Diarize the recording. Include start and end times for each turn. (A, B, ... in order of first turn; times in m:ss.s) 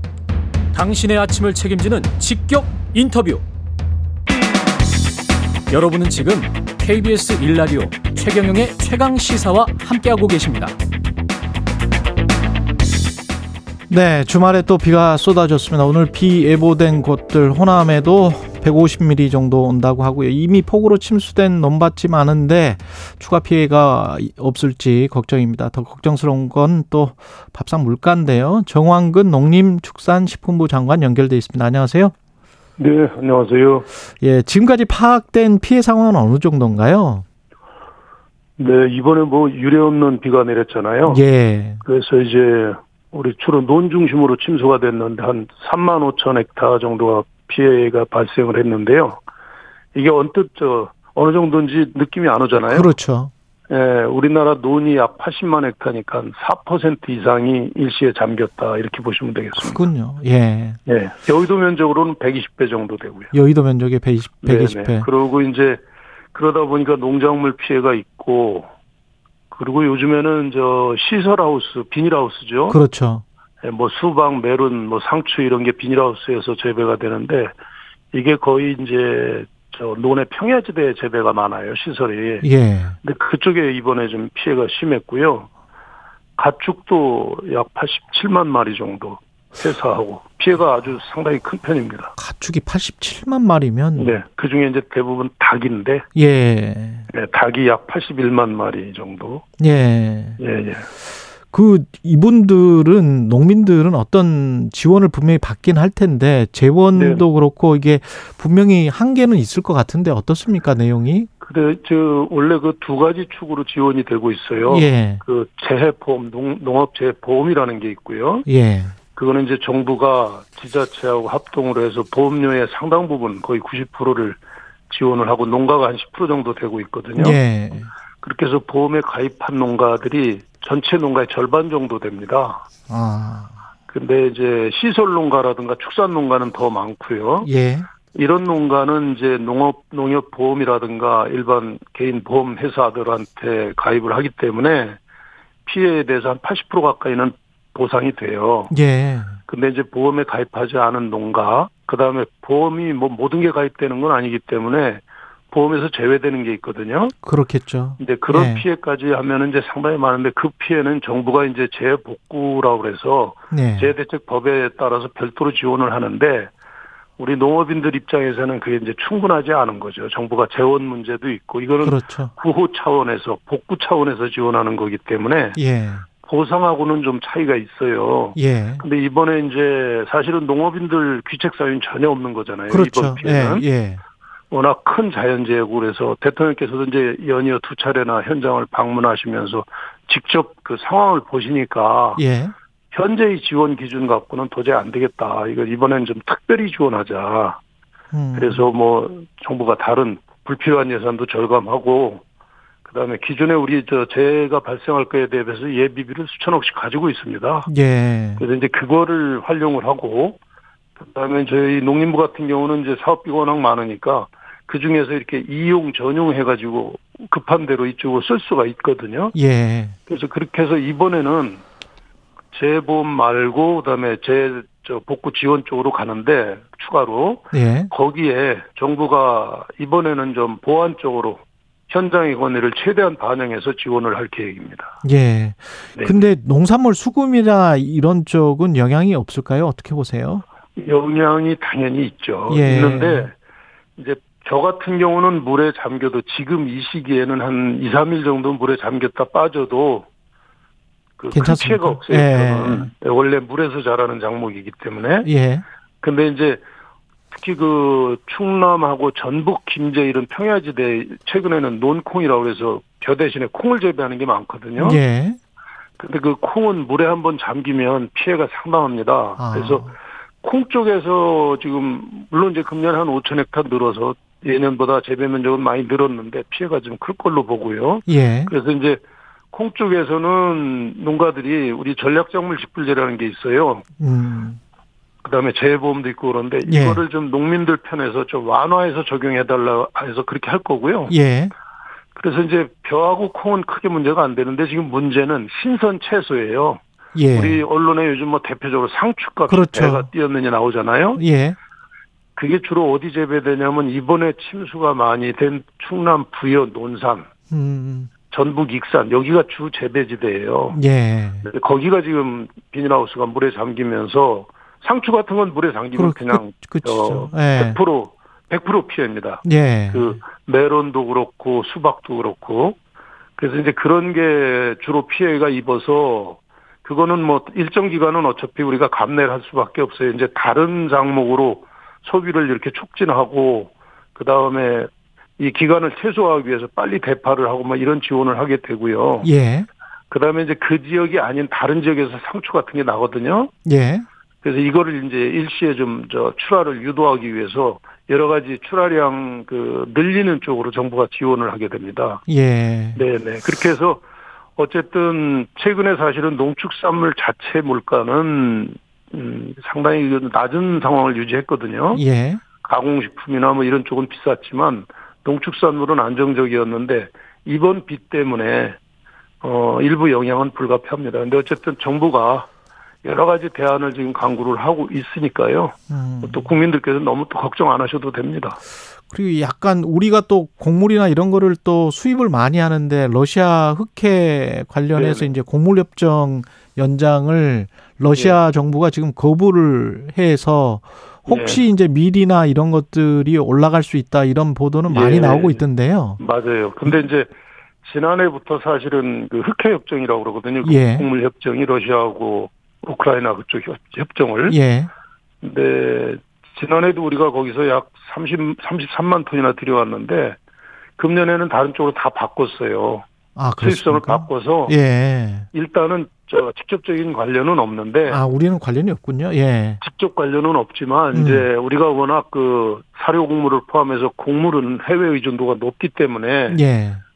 0:00.7-0:03.4 A
0:05.7-0:10.8 A
0:13.9-0:32.1 B
0:32.8-0:33.9 C
0:34.2-0:37.2 B
0:38.6-0:41.2 C
0:41.0-0:41.8 B
0:41.8-0:49.2 C
0:49.9-0:52.9 C
0:52.6-0:53.3 B
0:53.7-0:59.8 C
0:59.6-1:00.8 B
1:00.9-1:03.3 C
1:03.3-1:05.1 B
1:04.4-1:08.7 C
1:09.5-1:12.8 C
1:12.7-1:13.2 B
1:13.6-1:17.6 C
1:18.1-1:22.4 C
1:22.4-1:23.0 B
1:23.0-1:25.5 C
1:26.4-1:32.1 C
1:32.2-1:34.2 B
1:34.0-1:36.0 C
1:36.2-1:37.1 B
1:37.1-1:39.4 C
1:39.6-1:40.4 B
1:40.4-1:40.9 C
1:41.5-1:51.3 B
1:46.9-1:47.2 C
1:51.4-1:58.5 C
1:54.7-1:55.2 B
1:58.5-1:59.0 B
1:59.1-2:07.4 C
2:07.2-2:07.9 B
2:08.2-2:12.6 C
2:12.9-2:13.5 B
2:13.9-2:17.5 C
2:17.4-2:17.9 B
2:18.1-2:25.0 C
2:25.7-2:28.7 C
2:28.7-2:29.4 B
2:29.5-2:37.2 C
2:37.2-2:38.6 B
2:38.0-2:46.5 C
2:43.5-2:43.9 B
2:47.2-2:55.6 C
2:51.8-2:52.3 B
2:55.6-2:56.1 B
2:56.2-3:03.7 C
2:58.4-2:58.8 B
3:02.7-3:04.0 B
3:04.5-3:12.2 C
3:12.2-3:12.5 B
3:12.9-3:17.6 C
3:18.1-3:18.6 B
3:18.3-3:22.2 C
3:22.8-3:27.7 C
3:27.7-3:28.4 B
3:28.4-3:30.4 C
3:31.0-3:39.4 C
3:39.3-3:40.0 B
3:40.1-3:41.6 C
3:42.5-3:54.9 C
3:47.5-3:47.9 B
3:55.0-4:00.4 B
3:56.0-3:56.2 C
4:00.8-4:03.3 C
4:02.5-4:03.3 B
4:04.0-4:10.1 C
4:11.2-4:15.3 C
4:11.3-4:12.9 B
4:15.2-4:15.6 B
4:16.0-4:16.6 C
4:17.3-4:25.0 C
4:24.8-4:25.4 B
4:26.0-4:43.8 C
4:29.4-4:29.9 B
4:38.1-4:38.5 B
4:44.0-4:44.6 B
4:45.2-4:51.1 C
4:46.6-4:47.0 B
4:51.1-4:51.5 B
4:52.1-4:56.8 C
4:57.1-4:57.6 B
4:57.3-5:01.2 C
4:59.5-5:00.1 B
5:01.2-5:01.6 B
5:02.4-5:07.3 C
5:07.5-5:08.1 B
5:08.3-5:10.8 C
5:10.7-5:11.5 B
5:11.4-5:22.8 C
5:16.0-5:17.8 B
5:19.4-5:20.2 B
5:23.4-5:39.3 C
5:39.2-5:39.7 B
5:40.1-5:43.5 C
5:43.6-5:44.1 B
5:44.4-5:52.2 C
5:52.3-5:53.0 B
5:52.9-5:54.0 C
5:54.6-6:02.0 C
6:01.9-6:02.4 B
6:02.6-6:08.8 C
6:09.4-6:12.5 C
6:13.0-6:18.6 C
6:15.9-6:16.5 B
6:19.1-6:36.2 B
6:24.9-6:25.3 C
6:28.1-6:28.4 C
6:31.3-6:31.6 C
6:34.9-6:35.6 C
6:36.2-6:37.3 C
6:37.8-6:44.6 C
6:40.6-6:41.1 B
6:44.5-6:44.9 B
6:45.4-6:50.4 C
6:51.0-6:53.0 C
6:53.4-6:55.5 B
6:53.6-6:54.8 C
6:55.5-6:58.2 C
6:58.1-6:59.8 B
6:59.8-7:06.6 C
7:01.1-7:01.5 B
7:06.5-7:07.0 B